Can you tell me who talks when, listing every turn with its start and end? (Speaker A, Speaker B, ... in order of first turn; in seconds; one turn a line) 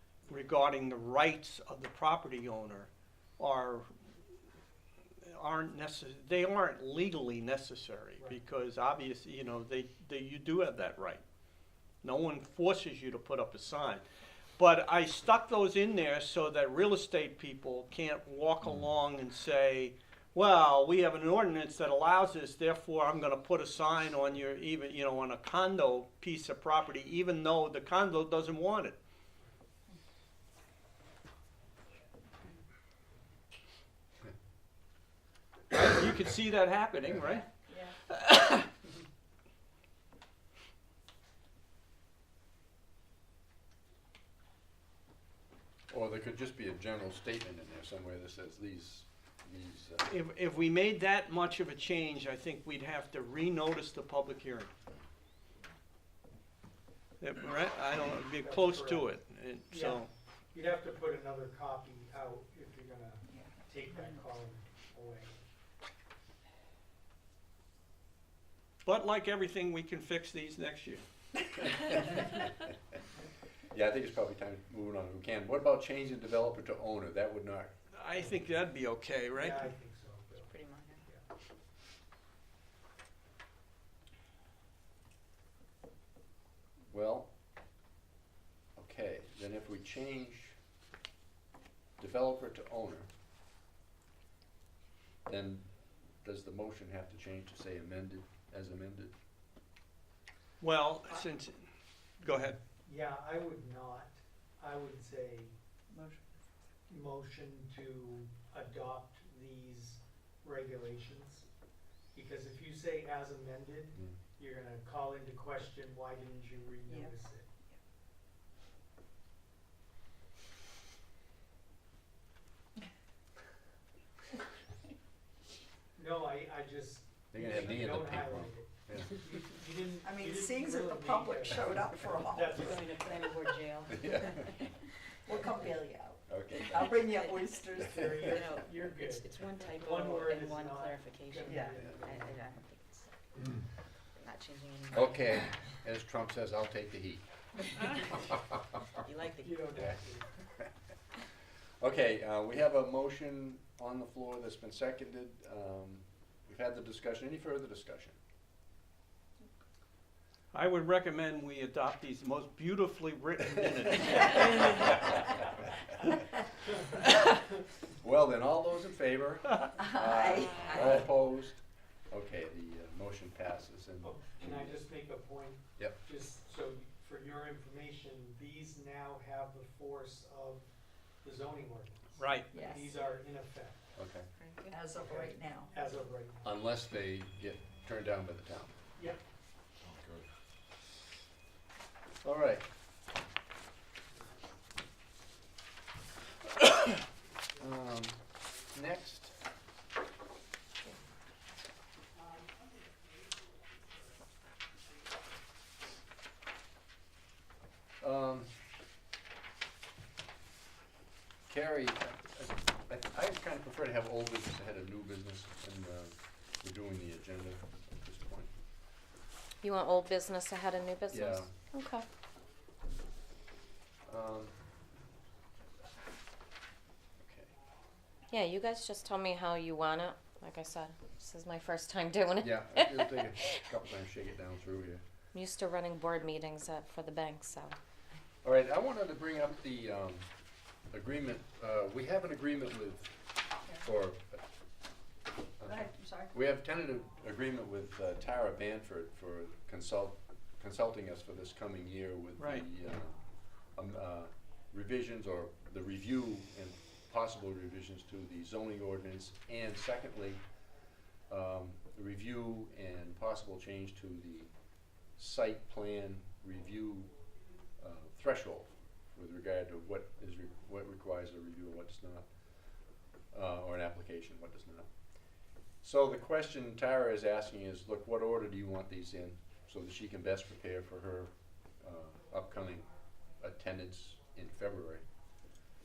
Speaker A: 0.3-3.9
Speaker A: 5.3-11.2
Speaker A: 12.0-14.0
Speaker A: 14.6-29.0
Speaker A: 35.7-37.5
Speaker A: 38.1-38.7
Speaker B: 45.9-50.1
Speaker A: 50.1-54.7
Speaker A: 57.2-60.1
Speaker C: 58.4-59.1
Speaker C: 59.7-65.4
Speaker A: 68.8-71.0
Speaker B: 71.7-72.5
Speaker B: 73.7-77.7
Speaker A: 77.9-79.7
Speaker C: 79.3-81.2
Speaker D: 80.5-81.0
Speaker B: 86.9-87.3
Speaker B: 88.8-90.5
Speaker B: 92.0-93.1
Speaker B: 95.3-95.7
Speaker B: 96.2-99.1
Speaker A: 100.6-101.7
Speaker A: 102.2-102.6
Speaker C: 102.8-105.5
Speaker C: 106.9-111.5
Speaker C: 112.1-117.5
Speaker C: 126.0-133.2
Speaker B: 127.3-129.3
Speaker E: 130.0-132.6
Speaker D: 132.6-134.6
Speaker B: 133.9-134.7
Speaker E: 135.2-138.5
Speaker B: 136.3-137.2
Speaker D: 136.6-143.1
Speaker C: 137.9-142.5
Speaker B: 137.9-138.3
Speaker E: 141.5-141.9
Speaker B: 141.8-142.1
Speaker D: 144.2-145.3
Speaker B: 144.9-147.2
Speaker B: 147.9-148.8
Speaker D: 149.0-149.9
Speaker C: 149.4-150.3
Speaker B: 151.8-158.2
Speaker A: 160.5-165.2
Speaker B: 163.5-165.2
Speaker B: 167.9-174.8
Speaker E: 169.8-171.0
Speaker C: 174.0-180.7
Speaker C: 181.2-183.8
Speaker A: 182.2-182.5
Speaker E: 182.5-183.0
Speaker B: 184.0-184.3
Speaker D: 184.4-184.8
Speaker E: 184.7-185.7
Speaker C: 185.0-186.4
Speaker B: 186.4-188.8
Speaker B: 192.2-192.7
Speaker B: 197.6-199.4
Speaker B: 208.0-208.6
Speaker B: 211.5-218.5
Speaker F: 219.6-222.1
Speaker B: 221.1-221.5
Speaker B: 224.1-224.5
Speaker B: 227.2-227.5
Speaker F: 228.3-233.6
Speaker B: 232.4-235.0
Speaker F: 235.3-237.8
Speaker B: 238.4-240.3
Speaker B: 240.9-244.4
Speaker B: 245.6-253.2
Speaker E: 245.7-246.3
Speaker A: 252.4-252.7
Speaker B: 253.8-260.4
Speaker B: 261.3-264.5
Speaker B: 265.2-267.1
Speaker B: 267.8-272.3
Speaker B: 273.3-274.9
Speaker B: 275.8-282.9
Speaker B: 283.4-285.1